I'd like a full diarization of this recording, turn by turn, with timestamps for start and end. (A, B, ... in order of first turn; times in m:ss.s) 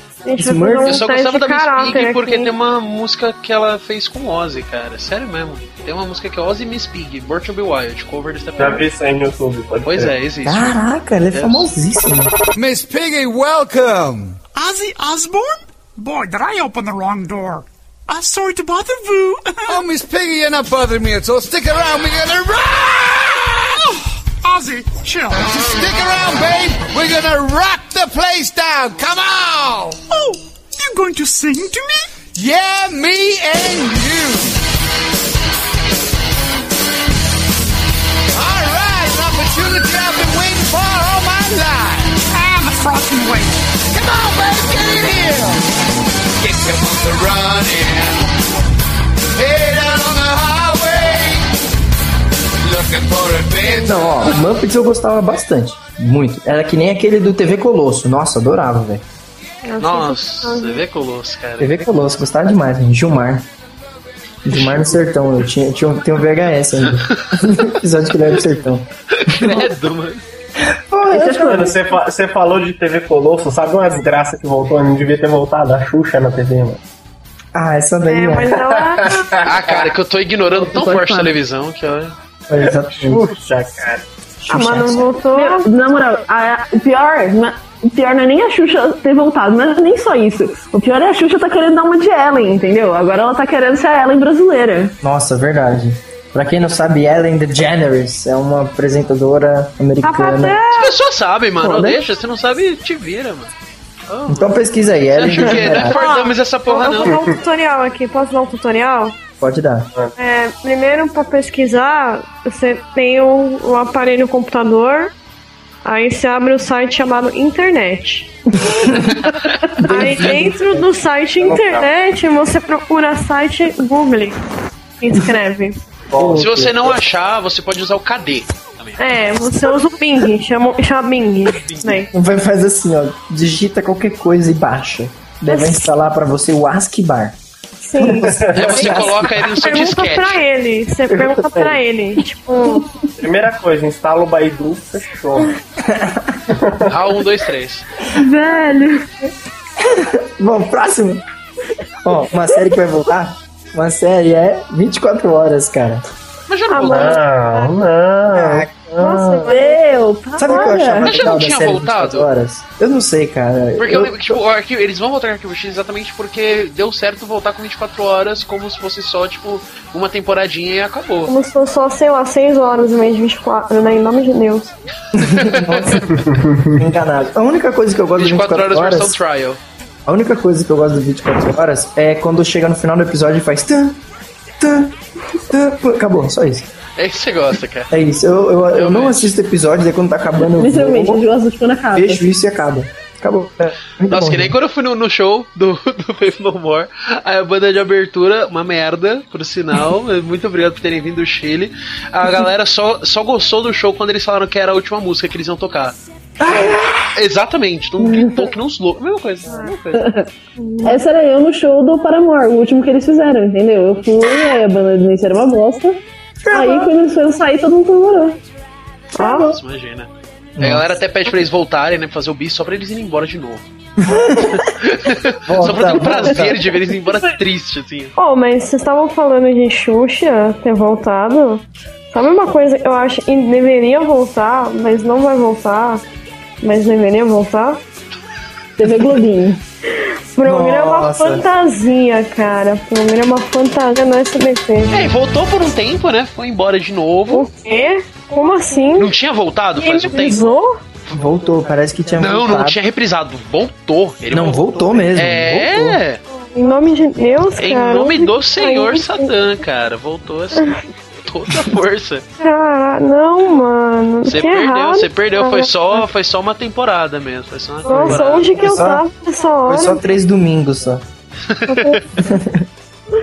0:00.2-0:02.5 A
0:00.4-0:01.0 B
0:00.9-0:08.8 C
0:08.6-0:10.1 D
0:09.8-0:10.8 C
0:10.4-0:12.3 B
0:11.3-0:11.7 C
0:12.6-0:14.4 E
0:14.5-0:19.9 F
0:19.7-0:23.8 E
0:24.4-0:25.6 F
0:25.5-0:30.0 E
0:30.1-0:32.1 F
0:32.3-0:34.6 E
0:38.3-0:42.3 E
0:42.3-0:43.6 F
0:43.9-0:45.7 E
0:46.4-0:48.2 E
0:49.4-0:51.5 E
0:52.6-0:54.3 E
0:53.6-0:59.0 B
0:59.6-1:00.8 A
0:59.8-1:02.0 C
1:01.6-1:03.5 B
1:04.4-1:09.7 B
1:04.5-1:05.0 C
1:08.2-1:10.2 C
1:10.7-1:11.8 B
1:11.1-1:11.7 G
1:11.4-1:16.9 D
1:17.5-1:18.8 B
1:18.1-1:19.3 A
1:19.0-1:19.9 D
1:19.4-1:22.2 C
1:20.6-1:21.3 G
1:22.5-1:23.3 B
1:22.6-1:24.1 D
1:24.4-1:25.1 B
1:24.5-1:25.7 A
1:25.3-1:35.0 G
1:35.0-1:40.6 B
1:40.0-1:40.9 A
1:40.7-1:43.5 C
1:41.6-1:42.0 G
1:44.1-1:47.2 C
1:44.3-1:46.0 B
1:45.9-1:49.2 A
1:47.0-1:47.3 D
1:49.4-1:49.9 B
1:50.2-1:55.1 A
1:55.8-1:58.3 A
1:58.6-1:59.2 B
1:59.8-2:04.4 A
1:59.8-2:00.9 B
2:01.4-2:01.9 D
2:05.0-2:05.8 A
2:06.1-2:06.5 D
2:06.1-2:06.9 B
2:06.4-2:09.3 C
2:09.0-2:12.1 A
2:12.1-2:17.4 B
2:15.5-2:15.7 A
2:17.8-2:22.9 A
2:18.0-2:19.4 B
2:18.2-2:18.9 D
2:18.5-2:20.4 C
2:21.1-2:21.8 B
2:23.2-2:25.6 D
2:25.8-2:26.4 B
2:26.5-2:26.9 D
2:26.9-2:27.9 C
2:28.1-2:29.1 G
2:29.8-2:31.2 B
2:32.0-2:36.0 B
2:36.5-2:37.2 C
2:36.7-2:37.7 A
2:36.9-2:39.2 D
2:38.3-2:39.5 B
2:39.0-2:39.8 A
2:39.4-2:41.2 G
2:40.4-2:44.4 B
2:40.4-2:40.7 A
2:41.0-2:42.3 C
2:43.8-2:51.3 C
2:51.3-2:54.7 A
2:55.1-2:56.2 B
2:55.2-2:56.0 C
2:56.1-2:56.8 D
2:56.8-2:59.2 B
2:58.2-2:59.6 C
3:00.1-3:04.0 B
3:04.6-3:06.7 B
3:07.0-3:07.9 C
3:07.9-3:11.3 B
3:08.7-3:09.3 C
3:10.5-3:12.2 G
3:12.0-3:14.6 B
3:14.1-3:26.0 C
3:26.4-3:27.2 B
3:27.1-3:30.1 C
3:28.0-3:28.5 G
3:29.5-3:29.7 A
3:30.0-3:30.3 G
3:30.6-3:31.0 A
3:30.8-3:36.0 G
3:36.4-3:36.9 B
3:36.5-3:38.4 G
3:39.2-3:39.5 A
3:39.2-3:39.6 B
3:39.3-3:43.6 C
3:40.6-3:40.9 B
3:44.0-3:44.7 B
3:44.4-3:48.1 C
3:45.5-3:46.8 B
3:48.2-3:56.0 A
3:56.6-3:57.8 A
3:58.8-3:59.6 G
4:00.4-4:05.0 A
4:00.4-4:01.5 B
4:04.9-4:07.5 C
4:07.3-4:09.1 A
4:09.0-4:10.6 C
4:09.8-4:10.8 A
4:11.1-4:12.8 B
4:12.2-4:16.2 C
4:14.3-4:16.0 B
4:16.3-4:19.3 A
4:17.6-4:22.2 C
4:22.4-4:25.7 A
4:24.2-4:28.6 C
4:27.8-4:30.0 A
4:27.9-4:29.0 B
4:29.7-4:31.0 B
4:31.5-4:32.0 C
4:31.7-4:32.0 A
4:32.2-4:32.6 B